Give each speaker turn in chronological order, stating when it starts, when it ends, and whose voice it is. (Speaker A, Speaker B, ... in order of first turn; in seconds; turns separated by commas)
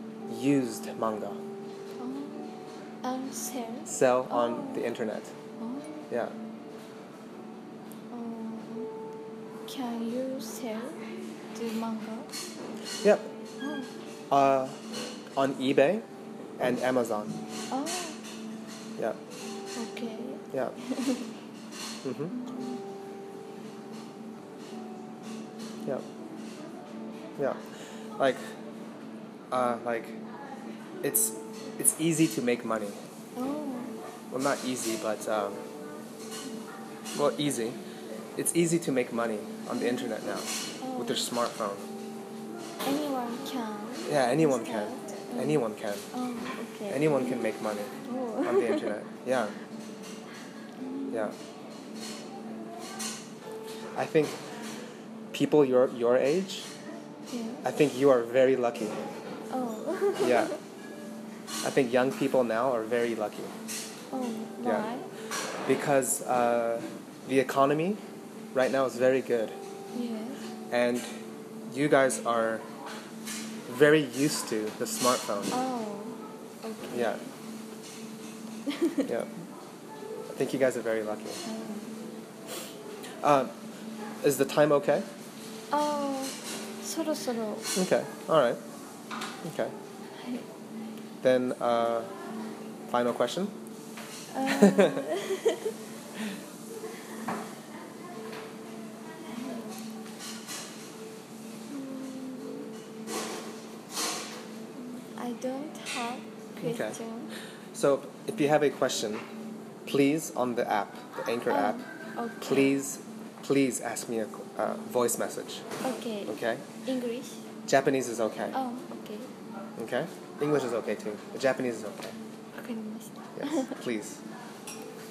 Speaker A: 0.3-1.4, Speaker B: 2.0-4.9, Speaker A: 3.9-5.3, Speaker B: 5.6-6.1, Speaker B: 8.1-8.9, Speaker B: 9.7-11.0, Speaker B: 11.5-12.3, Speaker A: 13.0-13.3, Speaker B: 13.6-13.9, Speaker A: 14.3-14.8, Speaker A: 15.3-16.1, Speaker A: 16.6-17.4, Speaker B: 17.7-18.2, Speaker B: 19.8-21.3, Speaker A: 22.0-22.3, Speaker B: 22.3-22.8, Speaker A: 28.2-28.4, Speaker A: 29.5-30.2, Speaker A: 31.0-33.0, Speaker B: 33.4-34.0, Speaker A: 34.3-35.6, Speaker A: 37.1-37.8, Speaker A: 38.4-41.9, Speaker B: 39.8-40.1, Speaker B: 40.8-41.3, Speaker B: 42.8-47.5, Speaker A: 44.0-46.1, Speaker A: 46.9-47.9, Speaker B: 48.0-49.0, Speaker A: 48.4-49.5, Speaker B: 50.8-51.3, Speaker A: 53.9-54.4, Speaker A: 55.3-56.7, Speaker B: 57.3-57.6, Speaker A: 57.6-59.0, Speaker B: 59.5-60.6, Speaker A: 60.2-60.5, Speaker A: 61.6-63.5, Speaker B: 64.1-65.1, Speaker A: 65.7-68.0, Speaker A: 68.5-69.6, Speaker B: 69.9-70.4, Speaker A: 70.7-71.1, Speaker A: 71.7-72.7, Speaker A: 73.7-75.6, Speaker B: 75.5-77.3, Speaker A: 76.9-77.2, Speaker B: 78.7-79.1, Speaker A: 79.0-79.3, Speaker A: 80.3-81.4, Speaker B: 81.4-81.9, Speaker A: 83.2-83.5, Speaker A: 84.2-85.0, Speaker B: 85.7-87.7, Speaker A: 87.8-88.6, Speaker A: 89.4-89.7, Speaker B: 90.2-90.5, Speaker A: 91.2-92.1, Speaker A: 92.9-93.5, Speaker B: 94.3-95.7, Speaker A: 94.5-95.1, Speaker B: 99.2-99.8, Speaker B: 101.7-102.7, Speaker B: 104.8-107.3, Speaker A: 106.6-107.0, Speaker A: 107.7-109.2, Speaker A: 109.8-111.8, Speaker B: 111.5-112.7, Speaker A: 112.4-115.6, Speaker B: 115.8-117.4, Speaker A: 116.3-116.7, Speaker A: 117.7-118.5, Speaker B: 118.5-119.3, Speaker A: 119.8-122.2, Speaker B: 122.5-123.7, Speaker A: 123.4-124.2